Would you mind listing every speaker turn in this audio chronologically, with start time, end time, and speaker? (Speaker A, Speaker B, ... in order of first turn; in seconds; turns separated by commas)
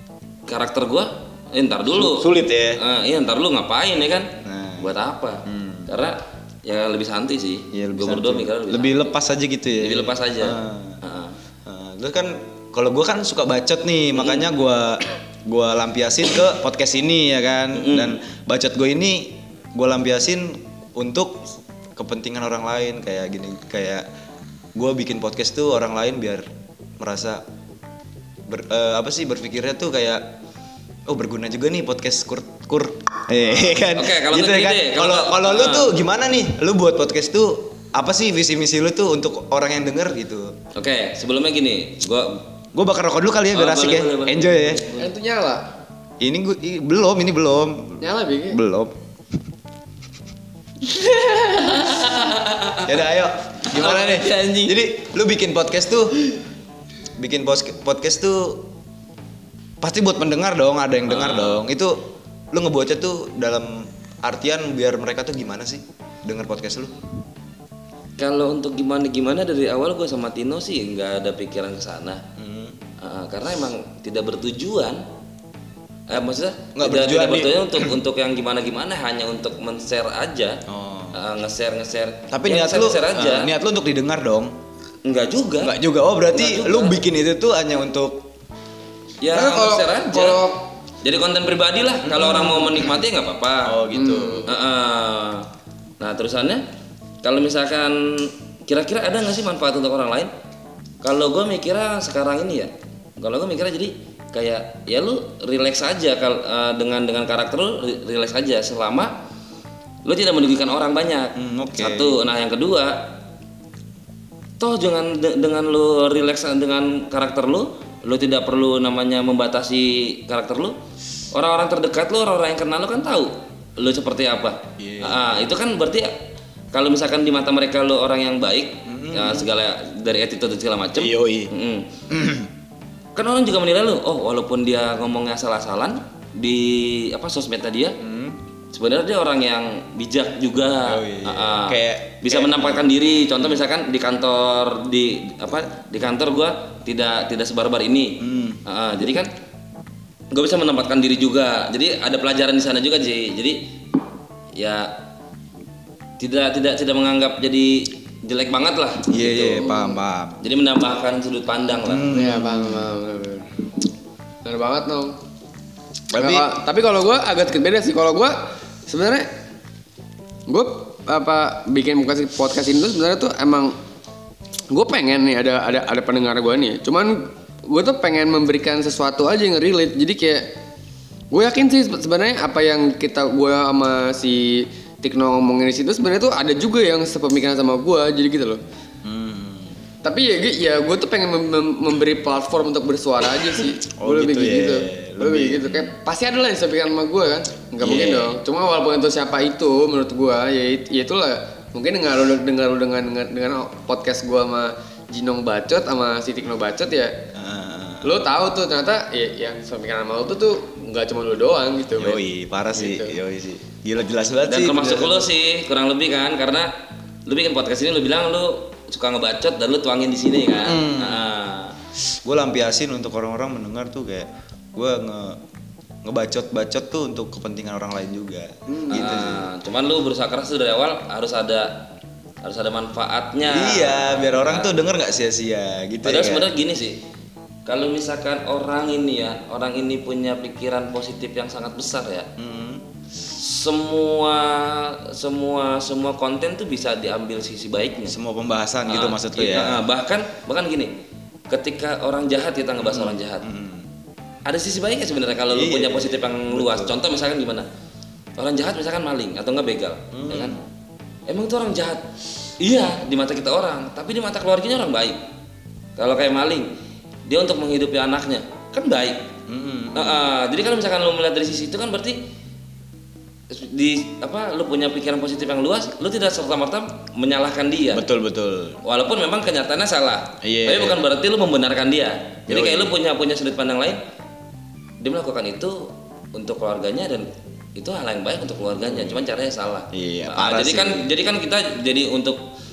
Speaker A: 0.5-4.3, Speaker B: 1.9-2.8, Speaker B: 4.4-5.0, Speaker A: 4.8-9.0, Speaker B: 5.5-5.9, Speaker B: 7.7-11.0, Speaker A: 9.8-11.4, Speaker B: 11.7-24.1, Speaker A: 14.2-14.4, Speaker A: 17.8-18.2, Speaker B: 24.8-26.5, Speaker B: 27.0-27.4, Speaker B: 28.5-30.3, Speaker B: 31.1-40.6, Speaker A: 33.4-35.9, Speaker A: 40.8-42.4, Speaker B: 42.7-44.9, Speaker A: 43.5-45.1, Speaker C: 45.0-45.6, Speaker B: 46.2-49.0, Speaker C: 48.0-48.6, Speaker A: 50.9-53.0, Speaker B: 52.8-56.2, Speaker A: 53.7-54.8, Speaker B: 57.2-58.7, Speaker B: 59.8-62.0, Speaker A: 61.1-61.6, Speaker B: 62.5-67.0, Speaker A: 68.2-72.2, Speaker B: 72.4-72.8, Speaker A: 73.0-75.0, Speaker A: 76.1-80.6, Speaker B: 76.8-78.0, Speaker B: 80.7-81.2, Speaker A: 81.1-83.5, Speaker B: 82.3-84.5, Speaker A: 85.0-85.8, Speaker B: 85.6-88.3, Speaker A: 86.3-87.0, Speaker A: 89.2-90.4, Speaker C: 89.3-90.6, Speaker A: 91.0-93.8, Speaker B: 92.0-93.0, Speaker B: 93.6-94.5, Speaker C: 93.9-94.5, Speaker A: 94.5-95.5, Speaker A: 96.0-96.6, Speaker A: 97.2-100.3, Speaker A: 101.0-109.2, Speaker A: 110.0-113.2, Speaker B: 111.3-112.2, Speaker A: 114.6-120.8, Speaker A: 121.3-126.2, Speaker B: 124.8-125.4, Speaker A: 126.7-131.9, Speaker B: 128.9-129.5, Speaker B: 131.0-131.5, Speaker B: 132.1-132.5, Speaker A: 133.2-137.9, Speaker B: 138.0-138.4, Speaker A: 138.7-149.3, Speaker B: 140.8-142.9, Speaker B: 148.2-148.6, Speaker A: 150.3-153.7, Speaker A: 154.6-154.9, Speaker A: 156.2-159.8, Speaker B: 159.1-160.4, Speaker A: 160.4-162.1, Speaker B: 161.8-162.9, Speaker C: 162.1-163.5, Speaker C: 164.4-165.1, Speaker B: 166.1-166.5, Speaker C: 166.2-169.3, Speaker C: 170.5-173.8, Speaker C: 174.7-180.4, Speaker C: 181.3-188.6, Speaker B: 189.0-189.7, Speaker C: 190.0-207.1, Speaker B: 193.5-195.9, Speaker B: 197.8-198.4, Speaker B: 207.3-208.2, Speaker C: 208.0-212.2, Speaker B: 212.0-215.3, Speaker C: 212.7-213.2, Speaker A: 214.5-216.7, Speaker A: 217.3-221.8, Speaker B: 220.6-221.3, Speaker B: 222.2-225.4, Speaker B: 226.0-229.5, Speaker A: 228.9-231.9, Speaker A: 232.4-234.7, Speaker B: 233.4-236.5, Speaker A: 236.1-237.0, Speaker A: 237.7-242.3, Speaker B: 242.4-242.8, Speaker A: 243.3-248.2, Speaker B: 248.1-249.8, Speaker A: 248.9-251.0, Speaker A: 251.5-253.4, Speaker B: 252.8-253.9, Speaker A: 254.5-257.7, Speaker B: 255.5-257.0, Speaker A: 258.4-260.6, Speaker B: 260.1-260.6, Speaker A: 261.3-262.0, Speaker A: 262.6-265.2, Speaker A: 266.0-266.7, Speaker A: 267.3-269.2, Speaker B: 269.5-270.3, Speaker A: 269.9-272.2, Speaker A: 273.5-278.1, Speaker B: 277.9-278.8, Speaker A: 278.8-284.0, Speaker B: 280.4-281.0, Speaker B: 282.5-282.9, Speaker A: 285.0-292.4, Speaker B: 288.8-289.2, Speaker B: 289.9-291.1